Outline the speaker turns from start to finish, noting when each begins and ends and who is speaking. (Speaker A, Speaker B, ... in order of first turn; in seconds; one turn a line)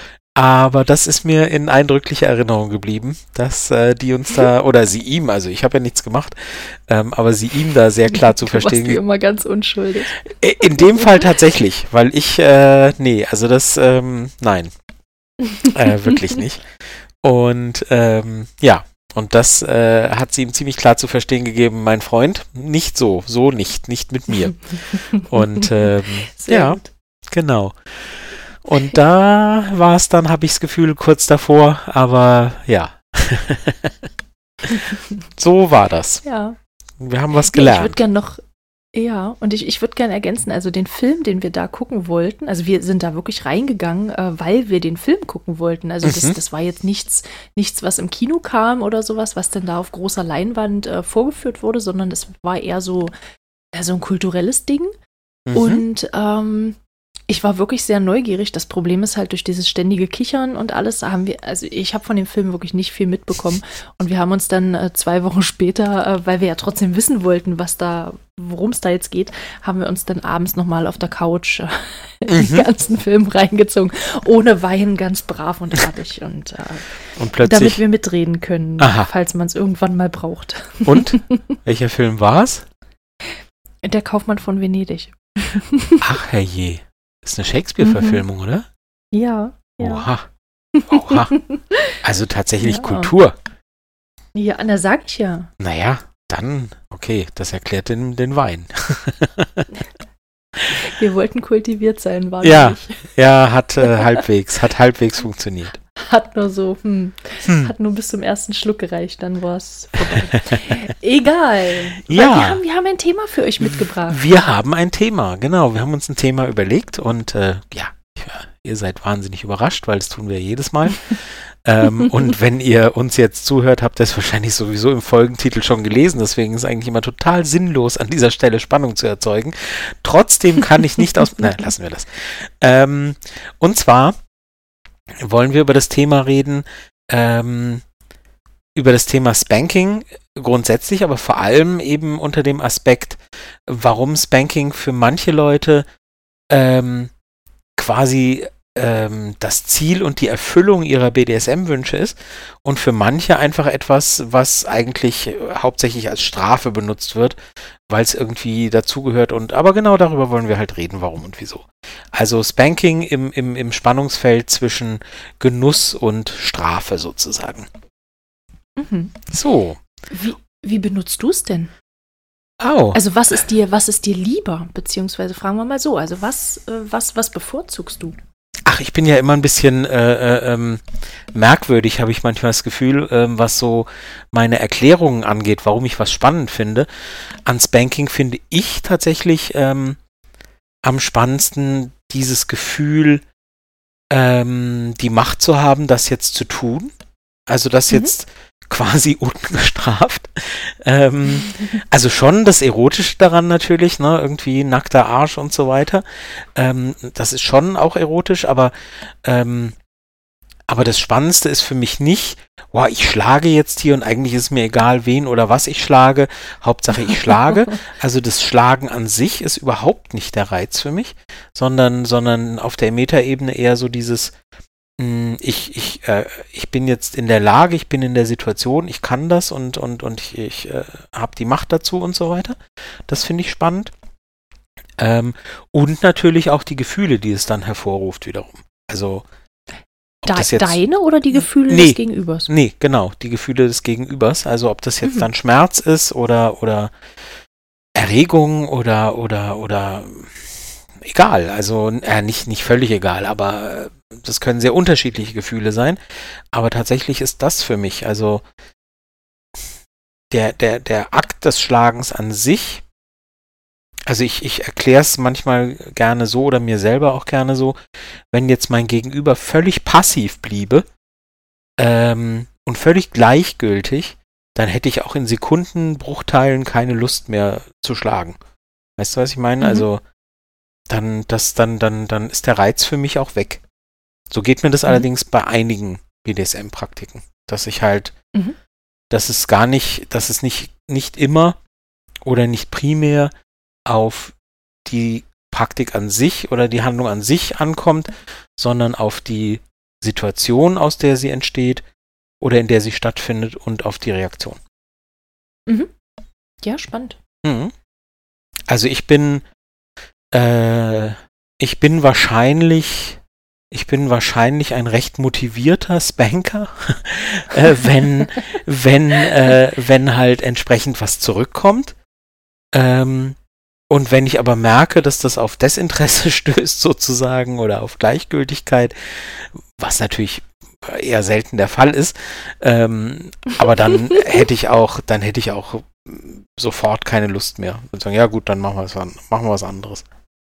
Speaker A: 0.3-9.0
Speaker B: 8.1-10.2
Speaker A: 10.2-14.7
Speaker B: 15.5-16.1
Speaker A: 15.6-16.6
Speaker A: 17.2-24.6
Speaker B: 24.9-26.9
Speaker A: 25.2-33.9
Speaker B: 34.7-35.0
Speaker A: 35.4-36.2
Speaker B: 36.2-36.6
Speaker A: 37.0-38.0
Speaker B: 37.5-38.4
Speaker B: 38.9-53.1
Speaker A: 46.0-46.4
Speaker B: 53.7-54.9
Speaker A: 55.5-55.8
Speaker B: 55.5-81.4
Speaker A: 72.3-72.7
Speaker A: 77.2-77.8
Speaker A: 78.8-79.1
Speaker A: 80.8-82.7
Speaker B: 83.8-86.0
Speaker A: 86.0-88.7
Speaker B: 87.8-88.2
Speaker B: 89.1-90.1
Speaker A: 89.8-90.3
Speaker B: 90.7-91.9
Speaker A: 90.9-91.3
Speaker A: 92.0-93.3
Speaker B: 92.6-93.1
Speaker B: 94.3-95.5
Speaker A: 95.6-99.7
Speaker B: 100.7-103.1
Speaker A: 102.4-105.8
Speaker B: 105.9-114.3
Speaker A: 107.5-107.7
Speaker A: 112.0-112.6
Speaker A: 113.6-134.2
Speaker A: 135.2-137.8
Speaker A: 138.7-145.8
Speaker A: 146.5-147.1
Speaker A: 147.8-157.4
Speaker A: 157.9-167.7
Speaker B: 168.8-169.3
Speaker A: 169.3-169.8
Speaker B: 170.1-171.7
Speaker A: 172.6-173.0
Speaker B: 172.9-178.2
Speaker A: 178.7-190.0
Speaker A: 190.8-193.2
Speaker A: 194.1-196.9
Speaker A: 197.5-209.8
Speaker A: 210.7-224.3
Speaker A: 225.0-233.9
Speaker A: 235.0-239.2
Speaker A: 240.2-240.8
Speaker B: 240.2-242.5
Speaker A: 241.3-246.9
Speaker A: 247.9-256.0
Speaker A: 256.5-258.4
Speaker A: 260.3-262.8
Speaker A: 264.1-267.8
Speaker A: 268.3-270.9
Speaker A: 271.8-278.4
Speaker A: 279.0-280.0
Speaker B: 279.6-279.9
Speaker A: 280.9-283.6
Speaker A: 284.3-288.1
Speaker A: 289.1-291.6
Speaker A: 292.2-293.3
Speaker A: 293.9-301.8
Speaker A: 302.4-304.6
Speaker B: 306.6-307.2
Speaker A: 307.4-307.7
Speaker A: 308.7-309.4
Speaker A: 310.3-313.2
Speaker A: 313.7-321.9
Speaker A: 322.7-323.4
Speaker A: 323.9-340.1